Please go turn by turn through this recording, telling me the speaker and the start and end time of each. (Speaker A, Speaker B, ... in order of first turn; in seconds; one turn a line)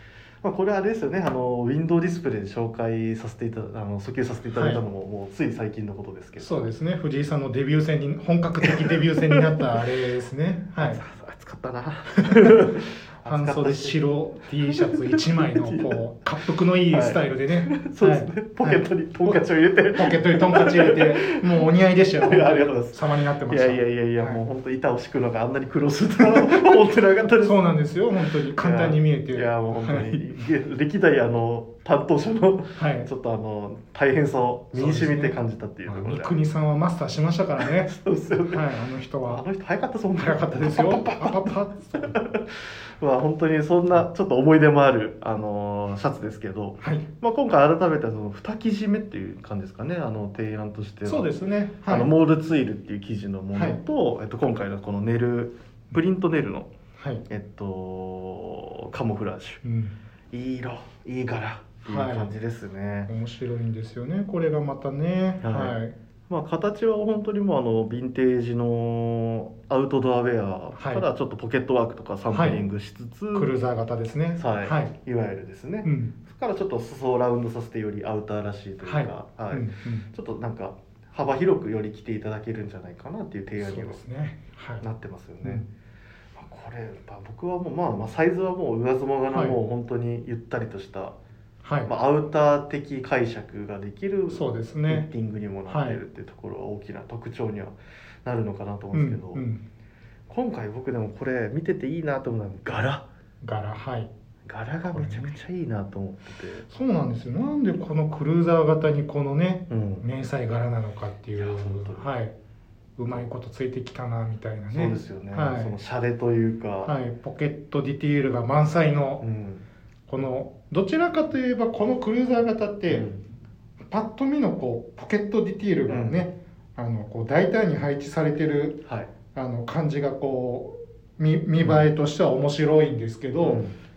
Speaker A: 0.4-6.7
Speaker B: 4.5-4.8
Speaker B: 6.4-11.0
Speaker A: 8.6-9.4
Speaker A: 10.8-14.0
Speaker B: 12.2-12.7
Speaker B: 13.2-19.4
Speaker A: 14.6-16.0
Speaker A: 16.9-21.6
Speaker B: 19.9-24.4
Speaker A: 22.2-27.6
Speaker B: 26.3-26.8
Speaker B: 27.4-30.2
Speaker A: 28.5-36.3
Speaker B: 32.8-33.1
Speaker B: 34.7-37.9
Speaker A: 37.6-38.7
Speaker B: 38.5-39.4
Speaker A: 39.2-51.3
Speaker B: 40.2-42.1
Speaker B: 51.0-52.1
Speaker A: 51.9-56.7
Speaker B: 53.5-53.8
Speaker B: 57.0-57.2
Speaker A: 57.3-59.6
Speaker B: 59.6-59.9
Speaker A: 60.3-63.1
Speaker B: 61.9-62.3
Speaker B: 63.1-65.9
Speaker A: 65.4-65.8
Speaker A: 66.3-73.5
Speaker B: 70.7-71.0
Speaker B: 72.3-72.6
Speaker B: 73.3-74.9
Speaker A: 74.4-84.0
Speaker B: 75.8-76.1
Speaker B: 78.8-80.1
Speaker B: 83.6-84.8
Speaker A: 84.8-85.7
Speaker A: 86.3-91.1
Speaker B: 89.3-89.6
Speaker B: 91.6-91.9
Speaker A: 91.8-99.4
Speaker B: 94.3-95.1
Speaker B: 95.7-96.0
Speaker B: 98.9-99.6
Speaker A: 100.3-103.0
Speaker B: 103.4-104.1
Speaker A: 104.5-106.7
Speaker B: 104.9-105.3
Speaker B: 106.7-112.3
Speaker A: 109.7-110.0
Speaker A: 111.4-112.1
Speaker B: 113.0-115.7
Speaker A: 114.7-116.9
Speaker B: 116.8-119.2
Speaker A: 119.2-119.6
Speaker B: 120.1-123.1
Speaker A: 122.9-123.2
Speaker B: 123.9-128.8
Speaker A: 125.9-126.3
Speaker B: 129.3-133.6
Speaker A: 133.4-133.7